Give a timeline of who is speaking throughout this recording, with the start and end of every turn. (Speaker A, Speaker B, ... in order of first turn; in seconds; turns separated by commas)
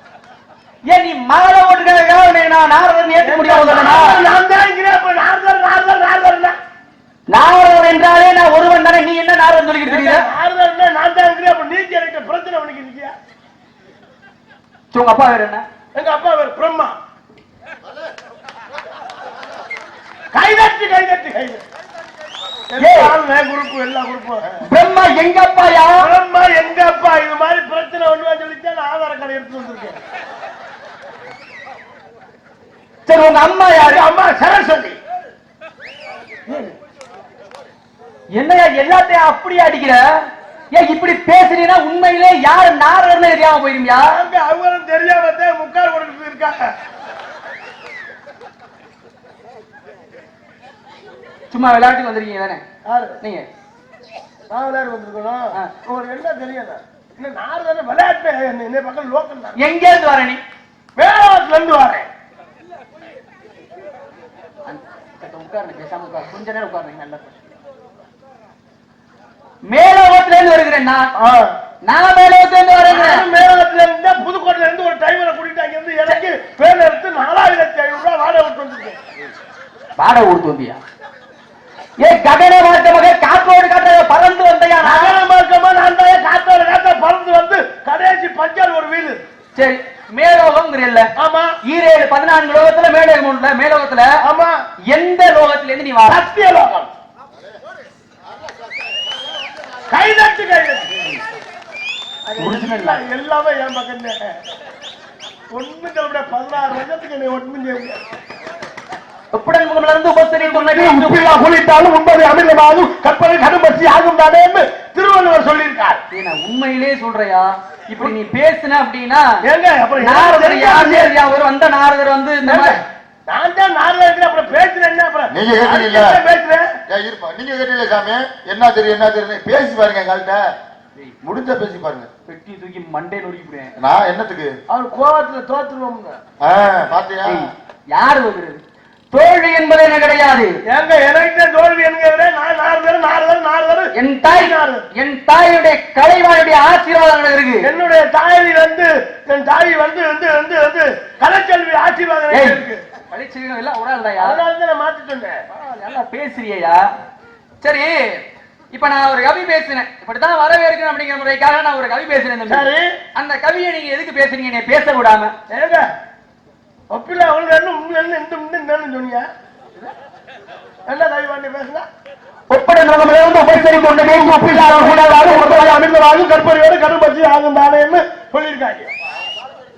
Speaker A: 0.9-4.2, Speaker B: 3.2-6.6, Speaker A: 7.3-10.3, Speaker B: 9.8-13.1, Speaker A: 14.9-15.7, Speaker B: 15.9-17.0, Speaker B: 20.3-21.6, Speaker B: 22.7-24.6, Speaker A: 22.8-23.2, Speaker A: 24.7-26.1, Speaker B: 26.0-30.0, Speaker A: 33.1-34.0, Speaker B: 33.8-35.0, Speaker A: 36.5-36.8, Speaker A: 38.4-44.1, Speaker B: 44.0-46.7, Speaker A: 51.5-52.6, Speaker B: 52.9-53.2, Speaker A: 53.2-53.5, Speaker B: 54.5-59.6, Speaker A: 59.6-60.4, Speaker B: 61.0-62.1, Speaker A: 64.7-67.4, Speaker A: 69.7-71.1, Speaker B: 71.2-71.6, Speaker A: 71.9-73.2, Speaker B: 72.9-79.1, Speaker A: 80.0-80.8, Speaker A: 82.0-85.2, Speaker B: 84.8-89.2, Speaker A: 89.6-91.1, Speaker B: 91.2-91.6, Speaker A: 91.7-94.1, Speaker B: 94.2-94.6, Speaker A: 94.9-96.2, Speaker B: 96.1-96.9, Speaker B: 99.9-101.2, Speaker B: 102.3-104.3, Speaker A: 102.4-103.0, Speaker B: 105.5-108.0, Speaker A: 109.3-111.2, Speaker B: 110.4-116.0, Speaker A: 116.1-119.3, Speaker B: 119.4-121.1, Speaker A: 120.0-122.8, Speaker B: 122.5-126.7, Speaker C: 125.3-126.2, Speaker C: 126.9-130.4, Speaker C: 131.2-132.1, Speaker A: 132.3-133.7, Speaker C: 133.8-134.5, Speaker B: 134.7-136.2, Speaker C: 136.4-137.5, Speaker A: 137.3-138.6, Speaker A: 139.1-140.6, Speaker B: 140.7-144.9, Speaker A: 143.9-147.7, Speaker B: 147.6-152.8, Speaker A: 152.3-154.4, Speaker B: 154.2-155.4, Speaker A: 155.5-156.8, Speaker A: 157.6-165.3, Speaker B: 162.5-163.0, Speaker B: 165.5-165.9, Speaker B: 166.9-169.3, Speaker B: 170.9-171.9, Speaker A: 172.5-175.8, Speaker B: 173.4-178.9